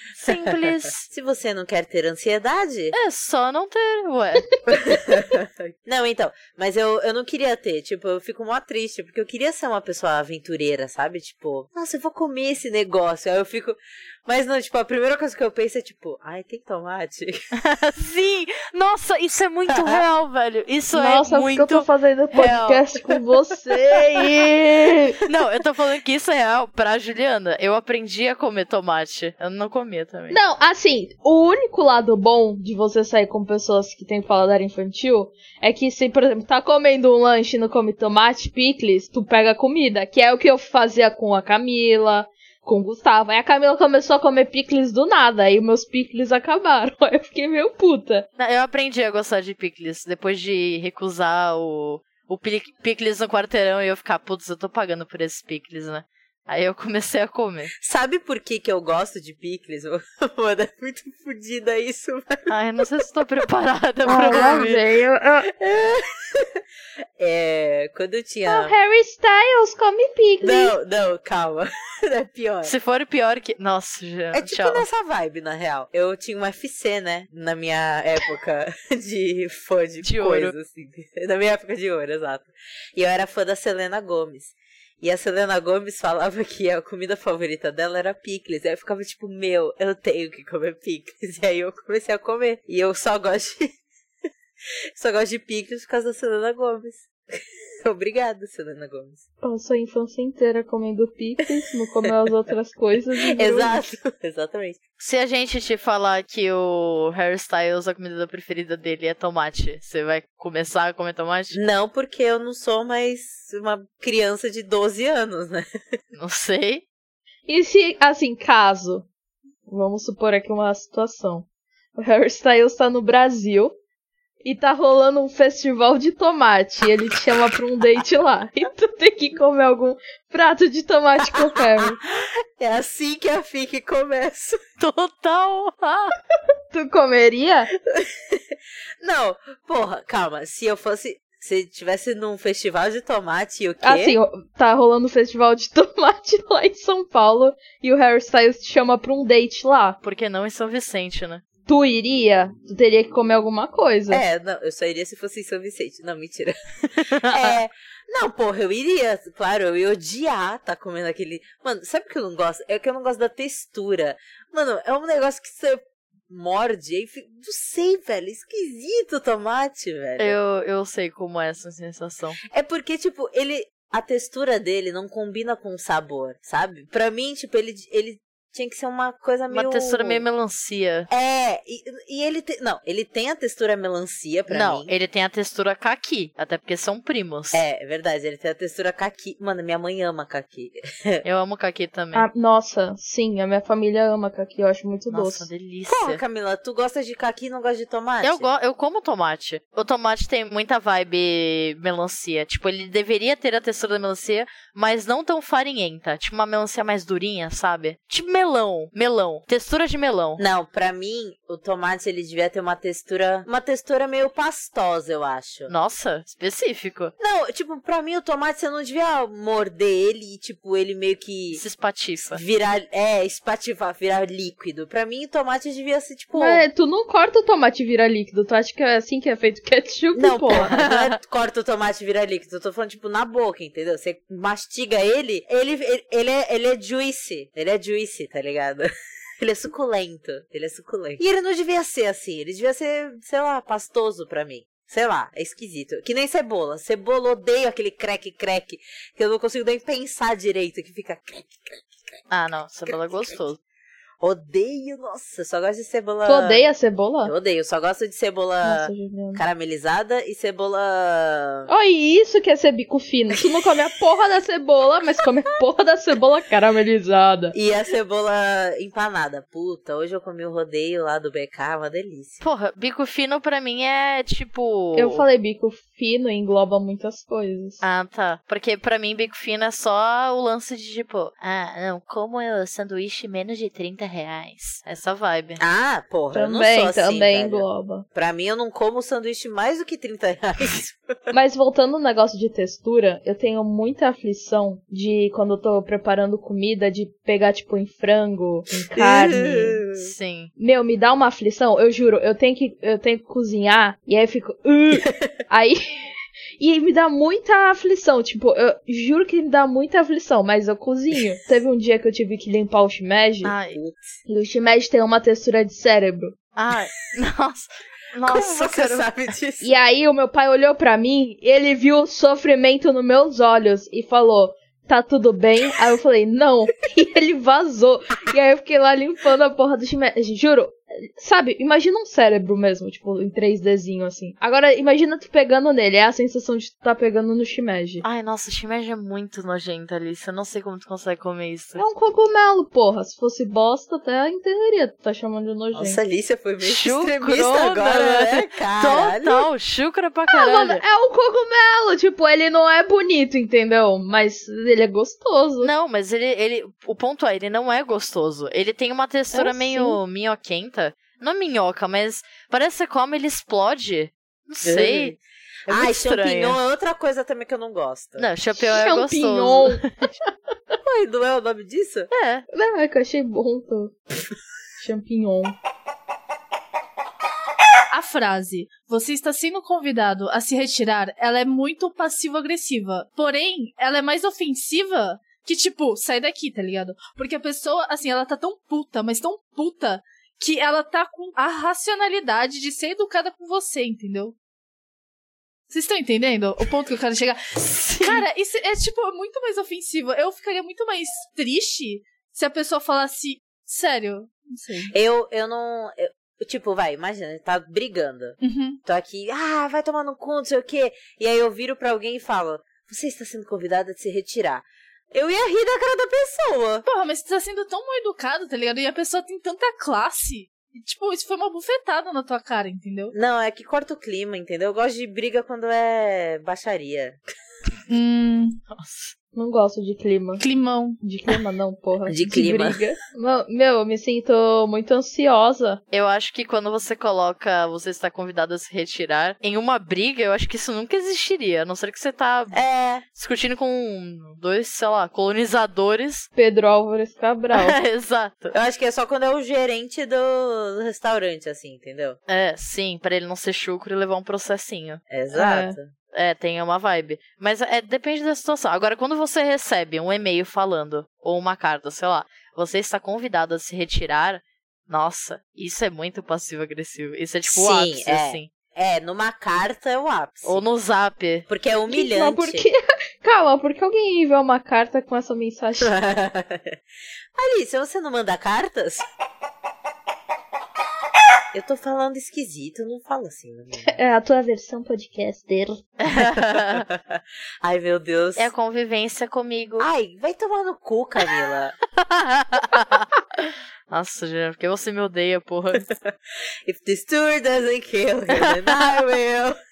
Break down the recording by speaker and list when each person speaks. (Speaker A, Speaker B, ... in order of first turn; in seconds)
Speaker A: 0.1-1.1, 2.9-4.5, 17.6-22.8, 25.2-30.4, 48.4-57.7, 62.5-64.8, 72.6-74.8, 80.0-80.5, 105.0-111.6, 116.1-116.8, 134.8-136.1, 150.0-151.4, 157.0-157.6, 170.2-172.4, 179.5-181.1, 184.5-187.6, 191.2-192.3, 195.1-196.2, 198.2-210.4, 215.7-217.1, 221.5-222.4, 230.7-231.2, 252.3-253.6, 272.4-275.2, 277.8-285.6, 299.9-300.5, 313.4-313.8, 316.6-319.1, 338.0-341.8, 346.6-350.8, 355.6-366.6, 368.2-369.9, 372.1-372.4, 397.6-398.2, 428.7-429.1, 435.9-442.6, 443.1-446.3, 447.5-448.5, 452.3-455.0, 456.1-468.5, 470.4-471.4, 486.0-486.9, 488.4-489.9, 492.1-495.8, 498.4-498.9
Speaker B: 0.3-3.0, 4.7-17.3, 19.7-20.0, 57.8-62.5, 64.1-64.7, 65.5-66.6, 67.2-68.7, 70.4-72.7, 74.3-93.8, 95.0-99.2, 103.3-104.8, 111.5-115.7, 131.3-134.6, 137.8-138.4, 139.0-144.2, 154.1-170.4, 172.4-180.2, 181.1-184.9, 187.5-191.2, 195.9-198.5, 210.4-215.7, 217.2-221.6, 222.3-226.6, 230.1-238.9, 239.4-252.2, 252.9-253.4, 254.2-256.7, 257.2-261.7, 267.5-272.4, 285.6-291.3, 298.9-300.1, 305.0-305.3, 313.7-314.1, 318.2-319.7, 345.7-349.5, 364.6-368.3, 370.8-372.1, 404.9-416.9, 423.1-427.2, 432.1-432.8, 442.5-443.0, 448.5-452.2, 455.1-455.9, 467.5-470.6, 471.5-472.7, 475.8-476.8, 477.3-479.0, 481.5-483.9, 486.1-488.5, 489.8-491.8, 495.9-496.1, 496.6-499.6
Speaker C: 20.9-25.2, 30.3-48.3, 64.0-65.5, 68.5-70.7, 99.4-103.9, 117.5-119.0, 119.7-123.7, 124.4-132.0, 136.7-137.7, 143.8-150.0, 151.7-154.2, 192.1-195.5, 226.3-230.8, 256.2-257.3, 258.6-259.4, 261.7-267.5, 274.9-277.8, 286.3-288.0, 291.3-299.8, 300.6-313.5, 314.3-316.3, 319.6-338.0, 341.8-346.0, 350.3-355.7, 359.3-360.0, 368.5-369.8, 372.5-373.9, 374.8-375.6, 429.3-430.4, 431.0-435.8, 446.4-447.8, 455.3-455.8, 471.9-475.9, 483.8-485.8
Speaker D: 377.9-394.3, 395.7-404.9, 408.4-408.8, 416.9-423.1, 427.9-428.6, 430.4-431.0